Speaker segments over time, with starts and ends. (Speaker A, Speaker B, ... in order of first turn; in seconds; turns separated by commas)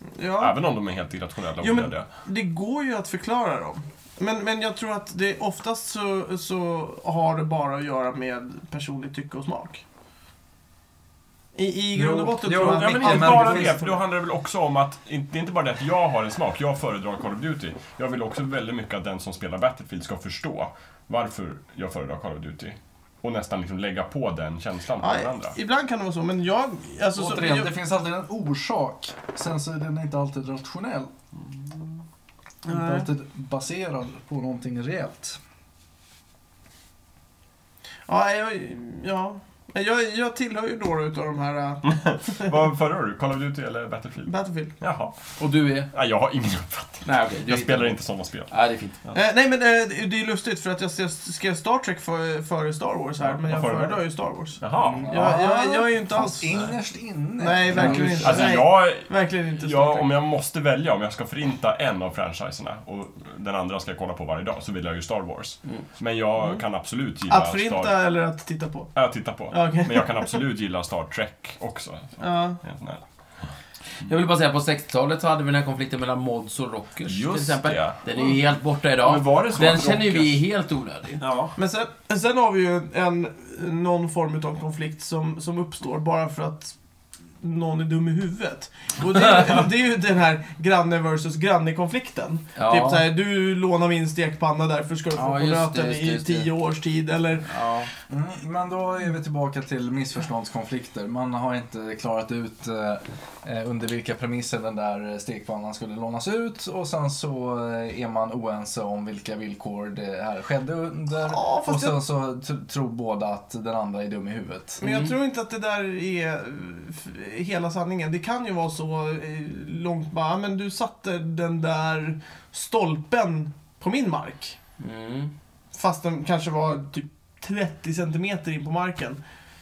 Speaker A: 0.2-0.6, Speaker B: 0.4-2.1, Speaker A: 1.6-9.8, Speaker A: 11.5-13.9, Speaker C: 11.9-13.9, Speaker B: 12.5-25.6, Speaker A: 25.0-27.7, Speaker C: 27.1-31.1, Speaker A: 32.6-33.1, Speaker C: 32.6-35.4, Speaker A: 38.1-42.6, Speaker B: 41.9-45.2, Speaker A: 44.3-44.7, Speaker D: 45.4-45.9, Speaker B: 45.9-48.5, Speaker D: 47.0-49.0, Speaker A: 49.1-56.7, Speaker B: 53.2-54.0, Speaker B: 54.6-55.2, Speaker D: 54.8-55.1, Speaker C: 55.1-58.6, Speaker A: 57.4-60.1, Speaker D: 57.8-58.1, Speaker B: 58.2-67.9, Speaker A: 67.3-68.9, Speaker B: 68.9-73.0, Speaker A: 69.5-70.4, Speaker A: 72.2-72.6, Speaker D: 74.0-81.2, Speaker B: 77.1-78.0, Speaker B: 79.0-80.4, Speaker B: 81.2-81.5, Speaker A: 81.5-86.8, Speaker A: 87.4-97.5, Speaker D: 92.5-93.0, Speaker D: 95.1-96.5, Speaker D: 97.5-97.9, Speaker C: 98.1-114.8, Speaker A: 111.2-112.0, Speaker D: 114.8-115.1, Speaker A: 114.8-124.6, Speaker D: 124.8-125.3, Speaker A: 125.7-129.2